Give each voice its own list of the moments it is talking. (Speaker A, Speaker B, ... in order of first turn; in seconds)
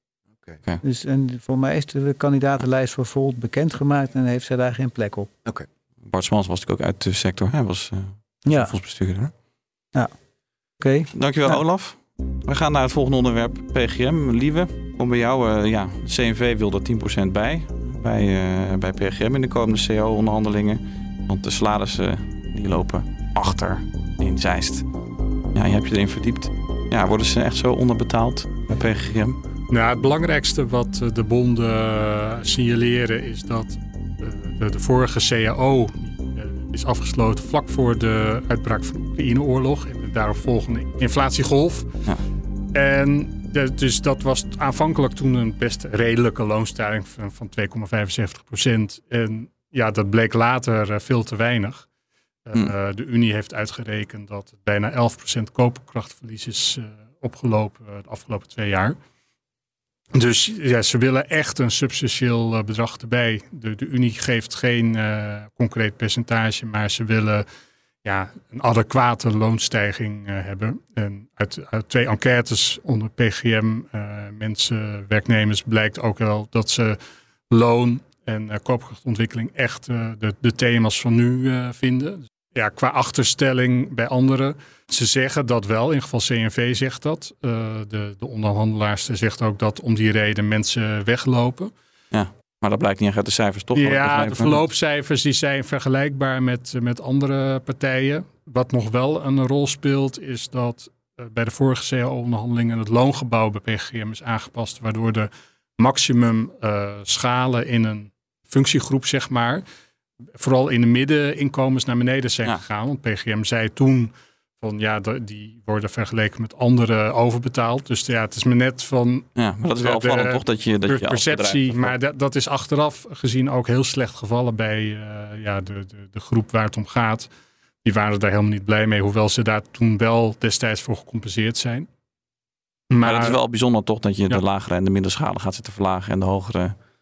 Speaker A: 0.8-5.3, 8.4-8.7, 10.8-11.6
Speaker B: 6.0-9.3, 11.1-24.9, 25.5-29.4, 92.1-94.6, 119.3-121.9, 133.0-136.8
Speaker C: 29.7-42.0, 42.7-51.9, 52.5-58.9, 60.1-67.4, 68.0-77.0, 77.5-91.7, 93.7-109.6, 110.4-127.3, 127.8-131.9, 132.9-133.4